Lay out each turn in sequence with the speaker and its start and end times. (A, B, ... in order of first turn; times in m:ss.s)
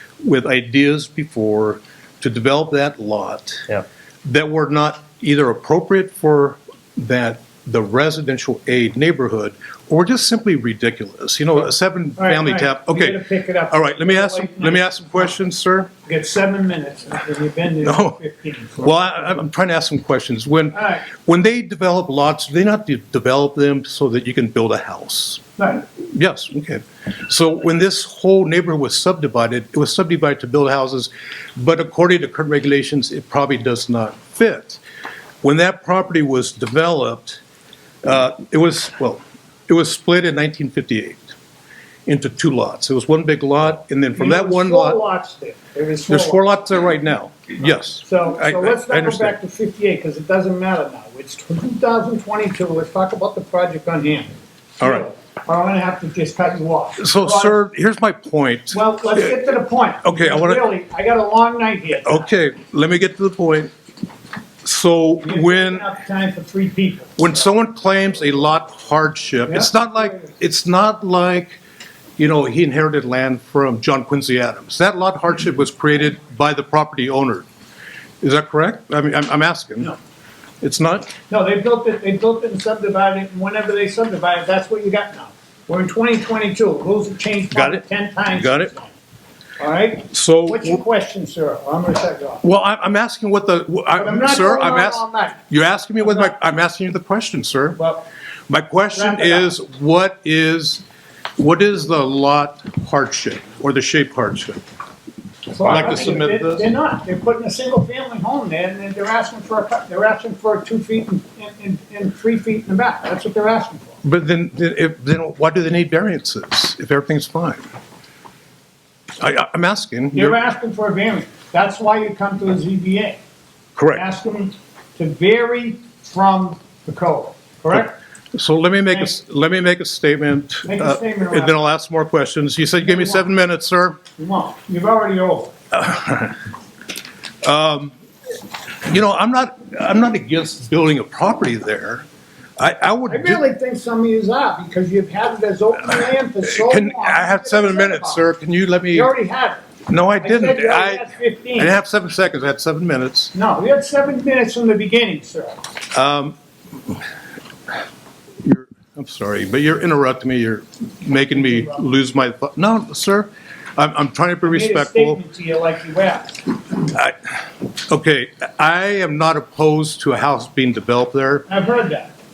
0:00.2-0:15.9 A
0:12.2-0:14.8 B
0:16.1-0:19.2 B
0:17.8-0:18.2 A
0:18.8-0:34.8 A
0:20.8-0:21.0 B
0:35.4-0:37.4 A
0:38.0-0:41.3 A
0:42.1-0:45.0 A
0:44.2-0:46.4 B
0:46.1-0:49.4 A
0:48.0-0:57.6 B
0:54.8-0:55.1 A
0:57.0-1:00.6 A
0:58.7-1:02.3 B
1:02.0-1:03.7 A
1:04.6-1:05.9 A
1:05.2-1:07.3 B
1:07.2-1:11.6 A
1:09.5-1:10.2 B
1:12.2-1:17.5 A
1:18.2-1:19.9 A
1:20.6-1:21.1 A
1:21.3-1:28.9 B
1:27.5-1:28.7 A
1:29.6-1:32.4 B
1:30.1-1:30.8 A
1:32.4-1:37.8 A
1:34.0-1:35.4 B
1:36.0-1:36.3 B
1:37.8-1:38.0 B
1:38.5-1:40.8 A
1:38.9-1:39.5 B
1:41.4-1:44.6 A
1:45.5-1:53.9 B
1:45.6-1:46.7 A
1:54.0-1:57.6 A
1:59.2-2:00.4 A
2:00.1-2:03.2 B
2:03.8-2:04.1 A
2:03.9-2:08.0 B
2:08.3-2:14.0 A
2:08.9-2:09.2 B
2:10.7-2:11.6 B
2:12.8-2:13.2 B
2:14.2-2:15.6 B
2:15.7-2:16.4 A
2:17.4-2:18.0 A
2:18.8-2:22.1 A
2:22.6-2:23.4 A
2:23.1-2:28.2 B
2:26.4-2:29.1 A
2:28.9-2:29.6 B
2:29.9-2:33.3 A
2:30.2-2:31.8 B
2:33.4-2:35.6 B
2:35.9-2:36.4 A
2:38.4-2:45.2 A
2:41.3-2:41.8 B
2:44.4-2:46.4 B
2:46.8-2:51.5 A
2:51.5-2:52.1 B